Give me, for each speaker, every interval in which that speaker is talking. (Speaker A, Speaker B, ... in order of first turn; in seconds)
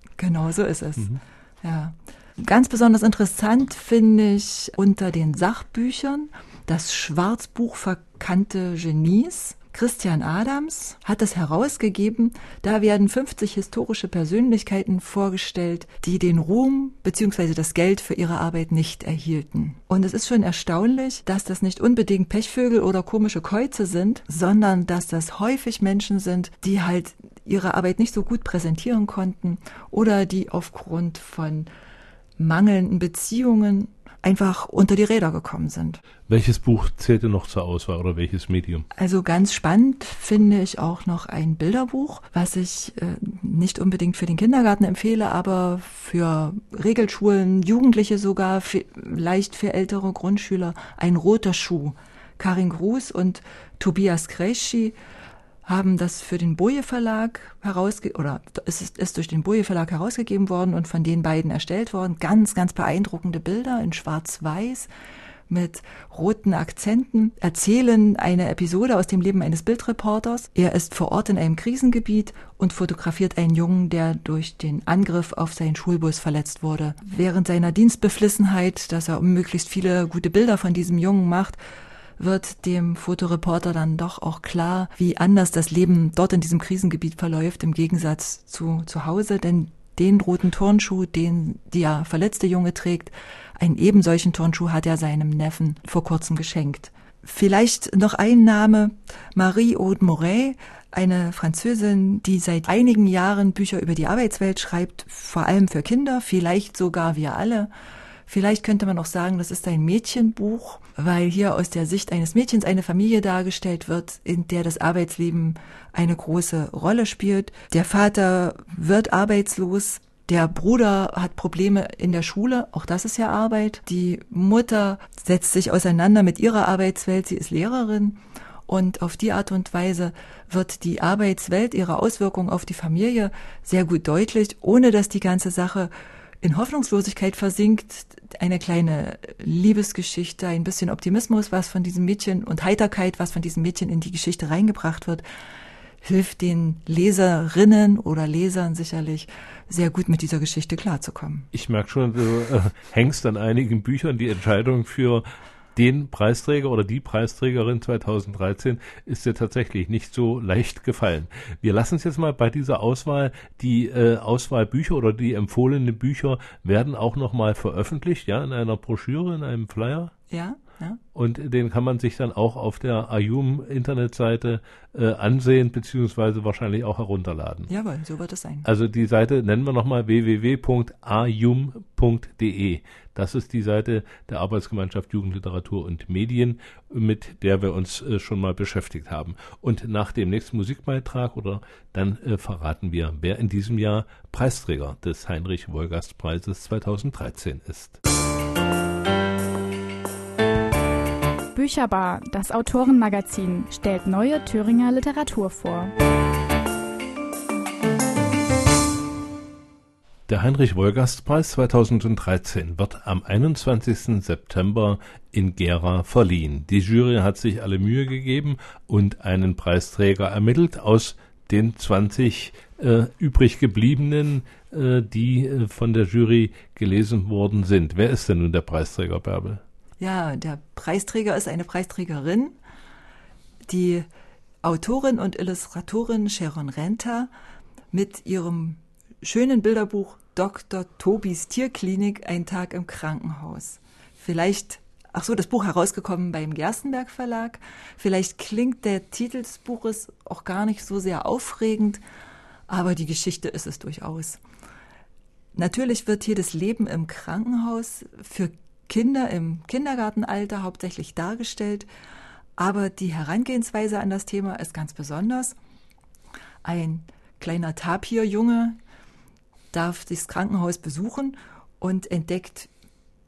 Speaker A: 0.2-31.7, 32.4-36.0, 38.9-55.0, 55.6-64.9, 65.5-81.6, 82.2-107.7, 108.3-145.2, 146.0-151.5, 170.3-171.0, 177.7-178.7, 230.0-232.6, 233.7-234.1, 234.6-237.3, 237.9-252.0, 252.7-254.4, 255.6-261.9, 262.6-265.6, 266.6-268.8, 269.7-272.7
Speaker B: 36.3-38.9, 151.5-155.2, 155.8-170.1, 171.1-177.7, 178.6-198.0, 210.3-229.6
Speaker C: 201.6-205.9